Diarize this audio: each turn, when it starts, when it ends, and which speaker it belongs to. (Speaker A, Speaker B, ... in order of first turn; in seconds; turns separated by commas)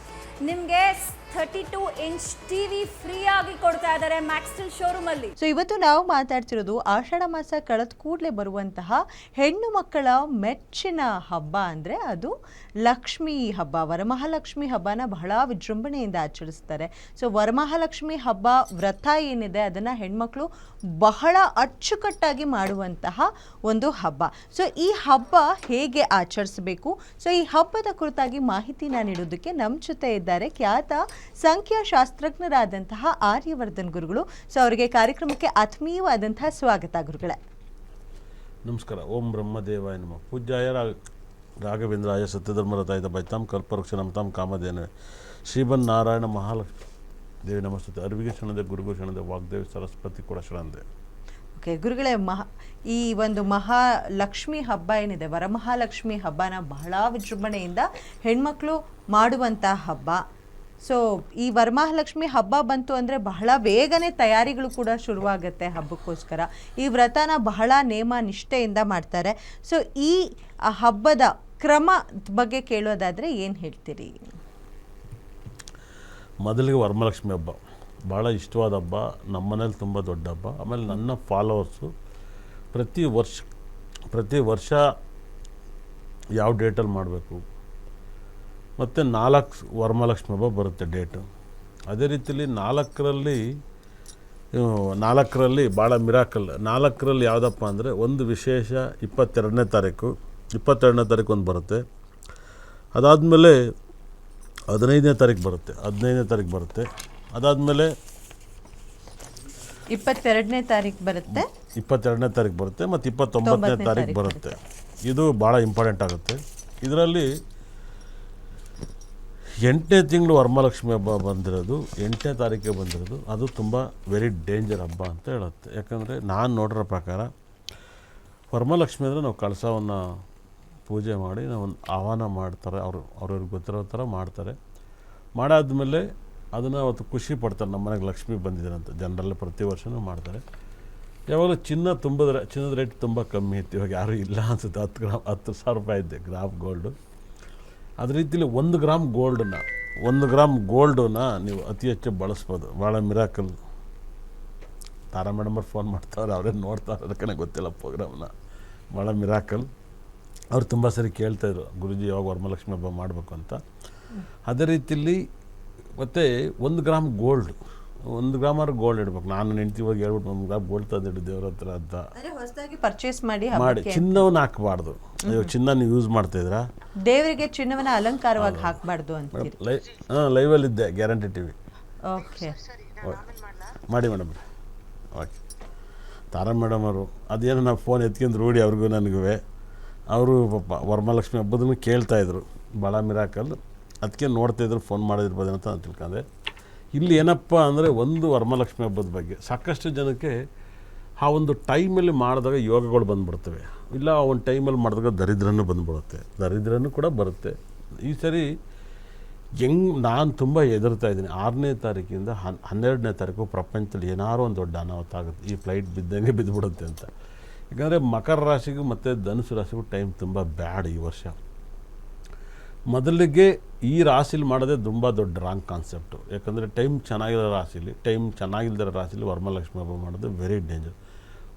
Speaker A: 0.4-5.3, Speaker B: 5.4-12.3, Speaker B: 12.8-20.4, Speaker B: 21.0-37.4, Speaker C: 38.6-41.0, Speaker C: 41.6-44.9, Speaker C: 45.5-46.7, Speaker C: 47.4-50.8, Speaker B: 51.6-60.2, Speaker B: 60.9-70.2, Speaker B: 70.7-74.2, Speaker C: 76.4-81.9, Speaker C: 82.7-83.5, Speaker C: 84.1-84.8, Speaker C: 86.4-87.4, Speaker C: 88.8-91.2, Speaker C: 91.9-93.4, Speaker C: 94.5-101.8, Speaker C: 102.9-103.7, Speaker C: 104.7-107.9, Speaker B: 109.9-111.5, Speaker C: 111.3-117.3, Speaker B: 113.4-114.5, Speaker C: 119.6-127.3, Speaker C: 128.5-130.1, Speaker C: 130.9-134.6, Speaker C: 135.3-140.4, Speaker C: 141.3-146.9, Speaker C: 148.0-153.5, Speaker C: 155.1-158.3, Speaker C: 158.9-159.7, Speaker C: 160.5-163.6, Speaker C: 164.5-165.2, Speaker C: 166.0-167.6, Speaker C: 168.1-172.0, Speaker B: 172.2-174.2, Speaker C: 173.5-176.7, Speaker B: 177.1-179.5, Speaker C: 178.4-178.8, Speaker C: 179.3-181.5, Speaker B: 182.1-182.7, Speaker C: 183.0-184.4, Speaker C: 186.3-189.4, Speaker C: 190.1-196.2, Speaker C: 196.9-200.3, Speaker C: 201.2-208.5, Speaker C: 209.6-217.1, Speaker C: 217.7-221.4, Speaker C: 222.9-230.9